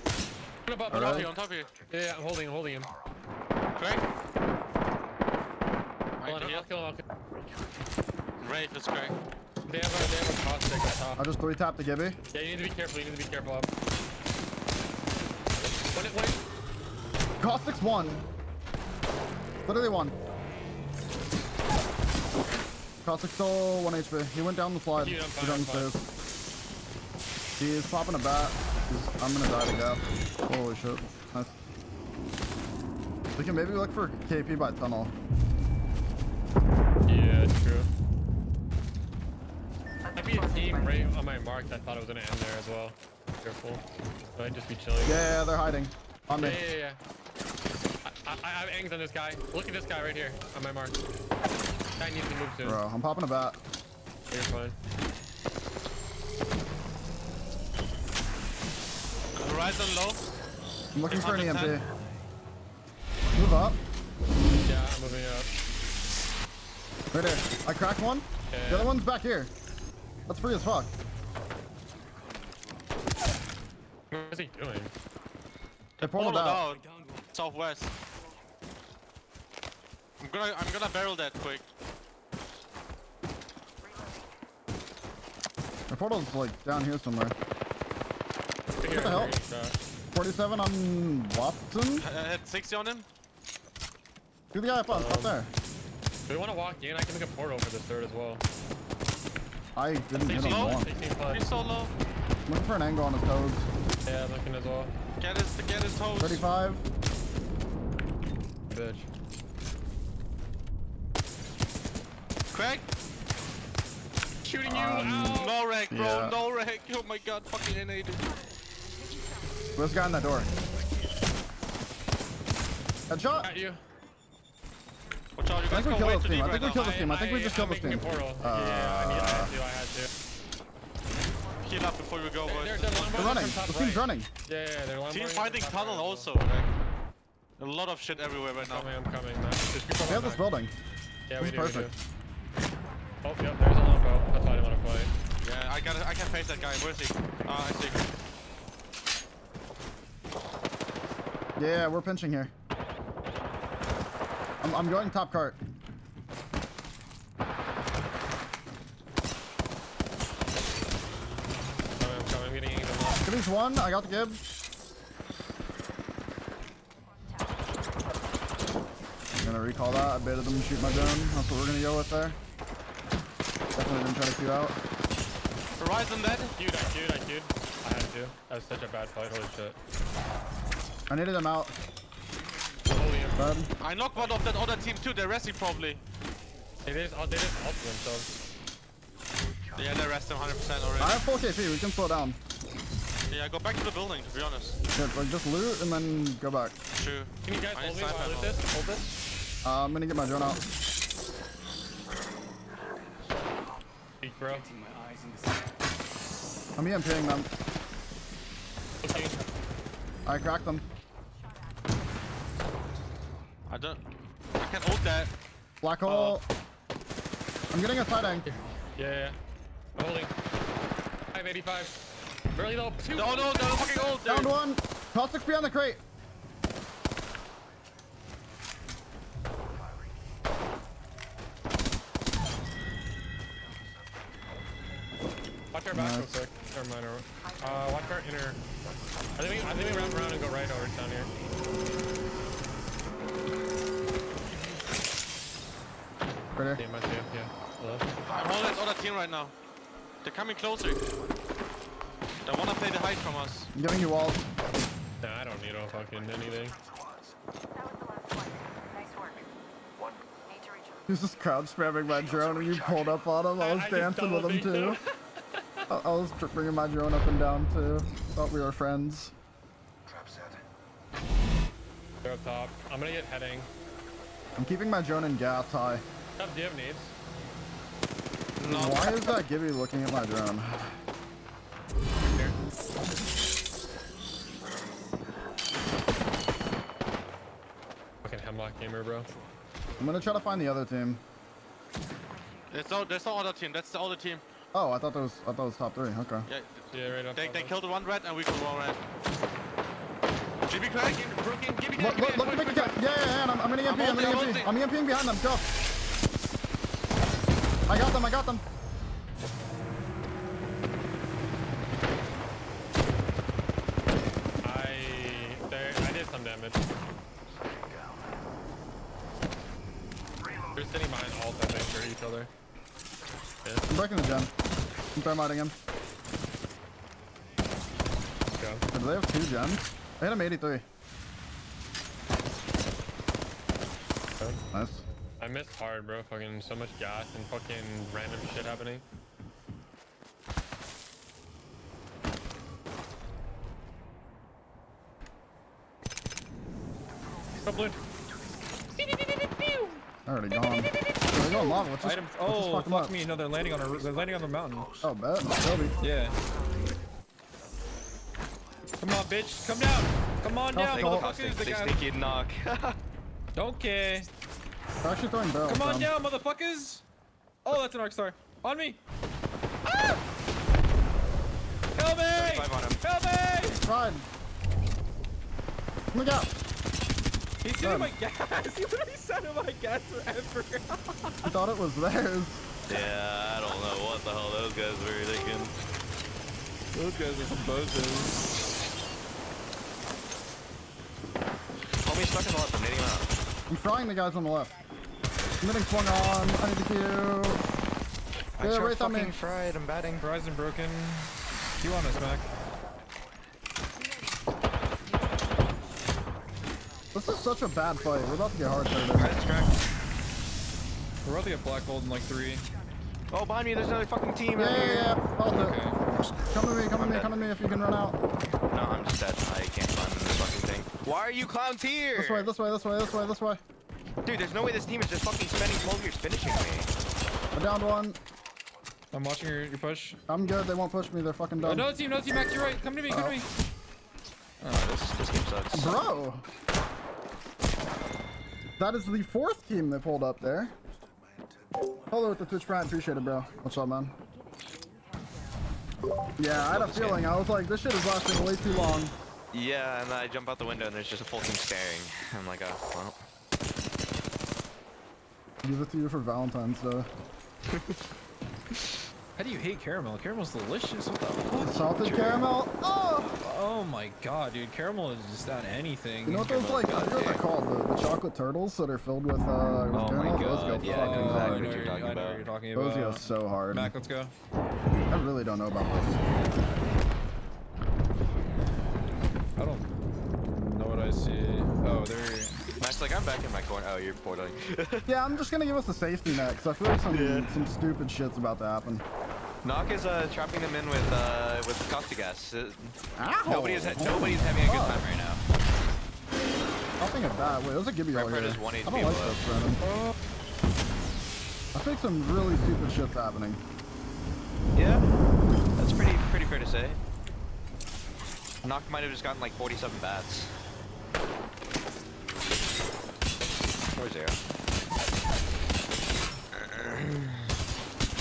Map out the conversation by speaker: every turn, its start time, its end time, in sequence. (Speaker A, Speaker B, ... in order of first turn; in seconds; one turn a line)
Speaker A: 0.7-1.3
Speaker B: 0.9-1.3
Speaker C: 1.0-1.7
Speaker A: 1.8-2.9
Speaker C: 3.7-4.0
Speaker C: 6.2-6.7
Speaker A: 6.2-7.0
Speaker C: 8.4-9.1
Speaker A: 9.7-11.2
Speaker B: 11.2-12.2
Speaker A: 12.3-13.7
Speaker A: 15.9-16.4
Speaker B: 17.4-18.2
Speaker B: 19.6-20.1
Speaker B: 23.0-26.0
Speaker A: 25.0-25.9
Speaker B: 27.6-31.5
Speaker B: 33.4-35.1
Speaker A: 37.0-37.9
Speaker A: 40.1-43.8
Speaker A: 44.3-45.2
Speaker B: 45.0-46.6
Speaker A: 46.4-47.0
Speaker A: 48.0-51.0
Speaker A: 52.0-52.8
Speaker B: 52.6-53.6
Speaker A: 54.3-54.8
Speaker C: 59.4-60.2
Speaker B: 60.9-61.9
Speaker C: 61.0-61.8
Speaker B: 63.3-63.8
Speaker A: 64.6-65.5
Speaker B: 67.1-69.5
Speaker A: 68.5-68.9
Speaker B: 70.3-70.9
Speaker A: 74.1-74.9
Speaker B: 76.0-76.6
Speaker C: 76.0-77.9
Speaker C: 80.2-81.6
Speaker B: 85.9-87.3
Speaker A: 88.8-89.8
Speaker B: 88.9-89.4
Speaker B: 90.1-92.1
Speaker C: 92.0-93.0
Speaker B: 94.5-95.5
Speaker A: 94.9-95.4
Speaker A: 96.3-98.4
Speaker B: 99.8-100.9
Speaker A: 100.2-101.4
Speaker C: 100.4-101.9
Speaker B: 102.5-103.7
Speaker A: 104.0-104.9
Speaker C: 105.2-106.4
Speaker B: 106.2-106.8
Speaker A: 108.7-109.1
Speaker C: 112.5-112.9
Speaker A: 114.4-115.6
Speaker B: 114.6-116.3
Speaker C: 115.3-118.2
Speaker B: 119.8-120.5
Speaker B: 123.1-123.5
Speaker A: 123.4-123.8
Speaker C: 125.4-126.8
Speaker B: 125.7-129.5
Speaker A: 126.6-130.1
Speaker C: 131.6-133.4
Speaker A: 132.4-136.4
Speaker B: 133.1-134.3
Speaker C: 135.1-136.7
Speaker C: 137.6-138.9
Speaker A: 138.6-140.4
Speaker B: 140.0-140.7
Speaker A: 141.3-141.9
Speaker B: 141.4-141.9
Speaker A: 143.2-145.1
Speaker C: 145.4-148.0
Speaker B: 151.6-152.5
Speaker B: 154.6-155.6
Speaker A: 162.0-163.2
Speaker B: 163.2-164.4
Speaker B: 169.3-172.4
Speaker B: 173.7-174.8
Speaker C: 175.8-176.5
Speaker A: 176.6-179.8
Speaker B: 181.1-181.8
Speaker A: 182.9-183.4
Speaker B: 183.4-183.7
Speaker C: 183.8-186.0
Speaker A: 186.8-188.3
Speaker C: 189.8-191.2
Speaker B: 191.0-192.4
Speaker C: 193.3-194.8
Speaker B: 194.9-196.7
Speaker C: 196.9-199.0
Speaker A: 197.4-199.1
Speaker B: 199.6-200.6
Speaker A: 204.2-204.7
Speaker B: 206.8-207.5
Speaker A: 209.0-209.4
Speaker B: 210.2-210.8
Speaker C: 213.7-214.0
Speaker C: 214.6-215.3
Speaker B: 215.8-216.4
Speaker A: 216.1-216.4
Speaker B: 217.7-218.5
Speaker A: 218.4-219.4
Speaker A: 219.9-220.3
Speaker A: 221.3-221.9
Speaker A: 222.5-223.8
Speaker C: 223.1-224.5
Speaker B: 224.2-226.0
Speaker A: 235.7-238.6
Speaker B: 235.9-236.4
Speaker A: 239.3-241.3
Speaker B: 246.5-246.8
Speaker A: 246.8-248.1
Speaker C: 248.2-249.5
Speaker C: 250.2-251.0
Speaker C: 252.4-253.7
Speaker B: 253.7-254.4
Speaker A: 255.2-256.8
Speaker B: 261.1-265.0
Speaker A: 263.6-265.8
Speaker B: 265.9-269.3
Speaker A: 272.2-273.7
Speaker B: 274.6-276.0
Speaker A: 276.4-277.1
Speaker C: 278.6-279.2
Speaker B: 278.6-280.9
Speaker A: 288.2-289.3
Speaker B: 290.0-291.2
Speaker C: 292.7-294.4
Speaker B: 294.7-296.5
Speaker C: 296.4-299.0
Speaker A: 296.9-297.8
Speaker C: 300.6-301.5
Speaker A: 301.4-303.0
Speaker B: 302.0-305.6
Speaker C: 303.8-304.7
Speaker B: 307.9-308.6
Speaker A: 314.6-316.8
Speaker A: 320.7-322.5
Speaker B: 323.9-324.5
Speaker B: 325.1-325.7
Speaker A: 328.6-328.8
Speaker B: 328.9-330.8
Speaker B: 334.7-335.0
Speaker A: 335.4-339.0
Speaker A: 347.6-347.9
Speaker B: 350.2-353.1
Speaker D: 352.0-355.0
Speaker B: 355.0-356.0
Speaker D: 356.0-356.4
Speaker D: 359.0-362.0
Speaker B: 360.7-361.3
Speaker E: 360.9-362.9
Speaker D: 363.5-364.3
Speaker B: 365.0-366.1
Speaker D: 365.6-367.0
Speaker D: 367.6-369.0
Speaker D: 369.9-370.2
Speaker D: 371.9-373.8
Speaker E: 372.3-373.0
Speaker B: 373.8-374.3
Speaker B: 376.1-376.5
Speaker D: 377.6-381.5
Speaker B: 377.8-378.1
Speaker B: 381.4-382.6
Speaker E: 382.9-385.8
Speaker D: 386.9-388.5
Speaker E: 392.0-393.3
Speaker B: 393.7-394.7
Speaker B: 395.6-397.6
Speaker E: 398.6-400.2
Speaker B: 398.6-399.3
Speaker D: 400.2-402.5
Speaker B: 407.1-409.3
Speaker E: 409.1-409.8
Speaker D: 411.2-412.7
Speaker E: 413.3-415.0
Speaker B: 414.5-418.2
Speaker C: 414.6-415.1
Speaker D: 415.4-416.0
Speaker E: 416.9-417.4
Speaker E: 418.7-422.5
Speaker B: 422.1-423.6
Speaker E: 424.2-426.9
Speaker B: 427.5-428.2
Speaker D: 429.1-430.2
Speaker B: 430.3-431.9
Speaker D: 431.6-433.5
Speaker B: 433.1-433.4
Speaker E: 434.6-435.9
Speaker B: 435.7-436.4
Speaker B: 438.8-440.7
Speaker B: 442.1-444.1
Speaker B: 446.4-449.1
Speaker E: 446.5-447.2
Speaker E: 449.5-453.2
Speaker B: 455.6-457.1
Speaker D: 459.4-461.9
Speaker B: 461.6-463.4
Speaker E: 462.0-462.5
Speaker D: 463.4-467.2
Speaker B: 466.2-471.7
Speaker E: 467.2-467.4
Speaker E: 469.9-472.4
Speaker D: 470.8-474.3
Speaker C: 471.0-472.1
Speaker B: 472.7-473.9
Speaker B: 475.1-476.2
Speaker D: 479.6-479.9
Speaker D: 480.5-482.6
Speaker E: 482.8-485.1
Speaker B: 485.1-489.0
Speaker E: 487.1-487.7
Speaker E: 489.6-492.9
Speaker B: 493.2-495.1
Speaker E: 493.4-495.4
Speaker B: 497.0-499.8
Speaker E: 498.1-499.3
Speaker B: 501.7-503.6
Speaker E: 504.7-505.0
Speaker E: 505.8-507.0
Speaker E: 508.6-510.5
Speaker E: 513.9-514.4
Speaker E: 516.5-517.3